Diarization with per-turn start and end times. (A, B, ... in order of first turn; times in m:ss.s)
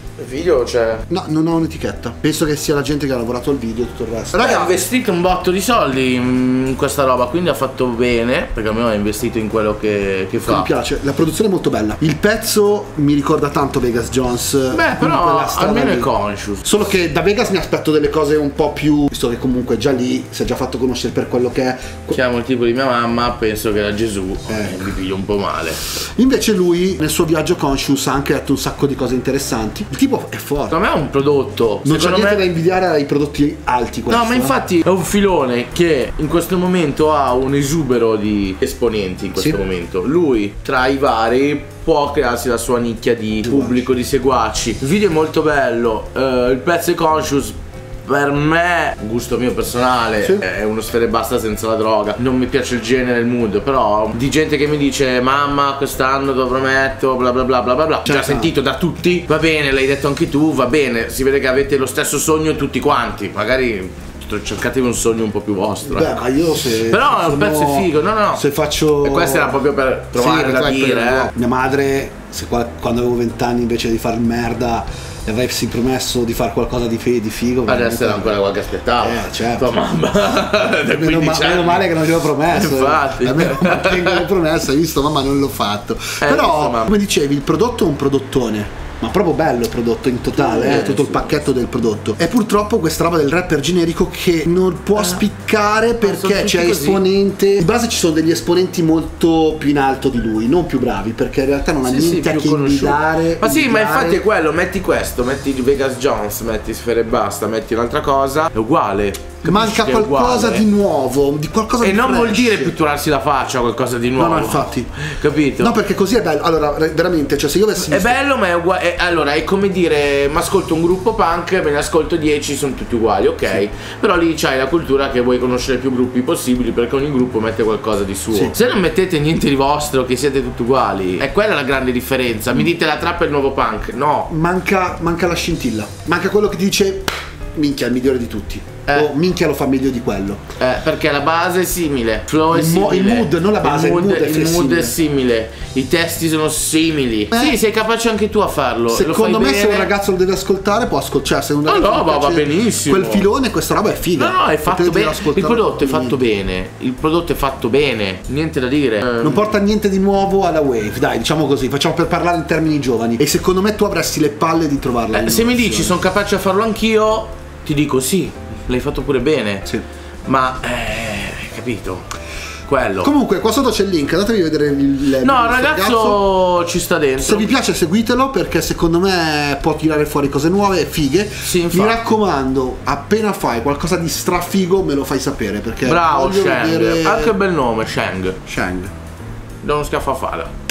0:00.2-0:01.0 A
0:01.1-0:04.8 B
0:04.3-0:10.7 A
0:10.4-0:16.1 B
0:14.7-0:16.6 A
0:16.6-0:22.2 B
0:22.1-0:25.8 A
0:24.5-0:24.9 B
0:26.1-0:30.8 B
0:30.7-0:32.4 A
0:31.8-0:34.6 B
0:34.1-1:08.4 A
0:43.4-0:43.9 B
0:58.0-0:58.5 B
1:05.9-1:09.6 B
1:09.0-1:11.3 A
1:10.2-1:18.4 B
1:17.6-1:24.3 A
1:19.0-1:19.7 B
1:20.8-1:44.2 B
1:26.2-1:26.9 A
1:30.3-1:31.4 A
1:35.0-1:35.2 A
1:36.0-1:37.0 A
1:41.8-1:50.7 A
1:49.4-1:52.8 B
1:51.8-1:55.8 A
1:54.2-1:54.9 B
1:55.6-1:58.2 B
1:57.8-2:14.3 A
2:08.3-2:08.6 B
2:14.3-2:20.4 B
2:18.9-2:19.1 A
2:20.6-2:29.9 A
2:22.5-2:25.0 B
2:27.3-2:27.6 B
2:28.9-2:36.2 B
2:31.6-2:33.3 A
2:34.1-2:39.5 A
2:39.2-2:46.0 B
2:45.1-2:49.6 A
2:50.2-2:52.1 A
2:52.6-2:53.1 A
2:53.0-2:56.2 B
2:55.2-2:57.5 A
2:57.2-3:07.4 B
3:01.4-3:02.1 A
3:05.8-3:08.4 A
3:08.5-3:08.9 B
3:09.6-3:10.5 A